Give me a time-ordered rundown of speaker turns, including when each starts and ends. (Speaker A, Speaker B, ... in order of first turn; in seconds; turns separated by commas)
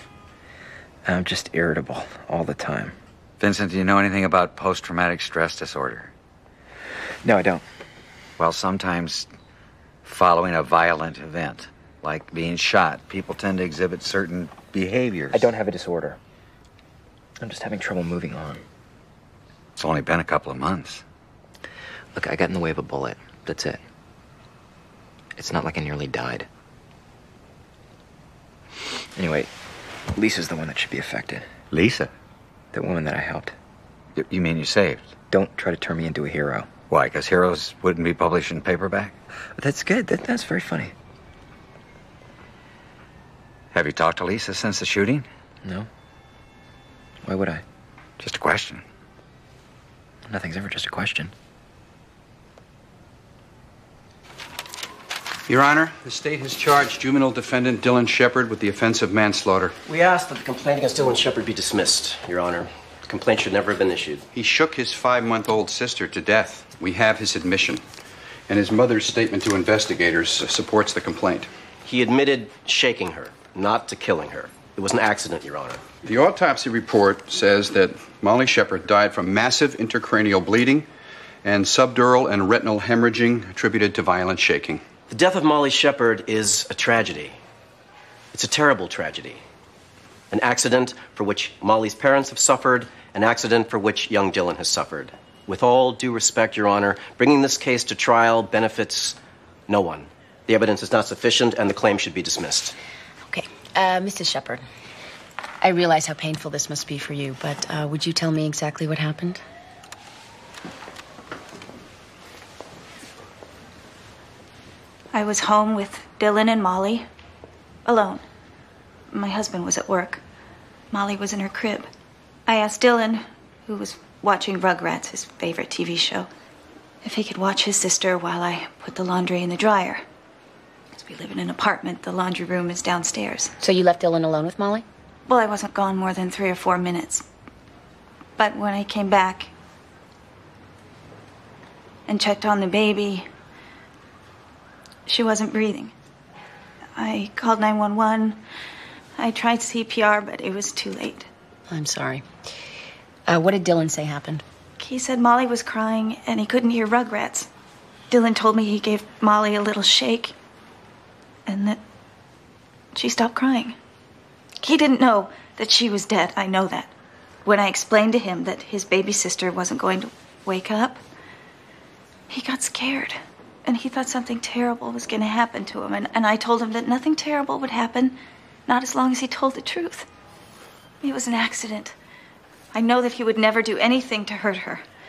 Speaker A: 1.1-3.0, Speaker B: 3.4-6.1, Speaker A: 7.2-7.7, Speaker B: 8.4-9.3, Speaker B: 10.1-15.5, Speaker A: 15.3-16.2, Speaker A: 17.4-18.6, Speaker B: 19.8-21.0, Speaker A: 22.1-23.8, Speaker A: 25.4-26.5, Speaker A: 29.2-29.5, Speaker A: 30.1-31.5, Speaker B: 31.7-32.1, Speaker A: 32.7-33.5, Speaker B: 34.2-35.1, Speaker A: 35.3-36.7, Speaker B: 36.9-39.2, Speaker A: 39.6-40.9, Speaker B: 43.7-45.3, Speaker A: 45.6-45.9, Speaker A: 47.2-47.6, Speaker B: 48.2-48.8, Speaker A: 50.3-51.3, Speaker C: 55.5-59.8, Speaker D: 59.9-64.2, Speaker C: 64.3-67.8, Speaker C: 68.5-71.5, Speaker D: 71.9-75.8, Speaker C: 76.0-80.9, Speaker C: 81.4-84.8, Speaker D: 85.1-87.4, Speaker D: 88.3-89.4, Speaker D: 90.3-99.2, Speaker D: 99.7-102.8, Speaker E: 103.3-104.6, Speaker E: 105.6-109.4, Speaker F: 115.1-117.0, Speaker F: 117.8-118.2, Speaker F: 119.1-120.2, Speaker F: 120.9-121.9, Speaker F: 122.5-126.3, Speaker F: 127.0-130.0, Speaker F: 130.9-133.6, Speaker E: 133.6-134.8, Speaker F: 135.3-137.2, Speaker F: 138.4-139.5, Speaker F: 142.1-143.3, Speaker F: 145.1-145.9, Speaker F: 147.0-148.4, Speaker F: 149.2-151.3, Speaker E: 151.7-152.2, Speaker E: 153.3-154.4, Speaker F: 154.8-157.5, Speaker F: 158.1-160.3, Speaker F: 161.5-161.8, Speaker F: 162.9-163.8, Speaker F: 164.6-166.9, Speaker F: 167.4-171.0, Speaker F: 172.3-180.1, Speaker F: 181.0-181.9, Speaker F: 182.7-184.8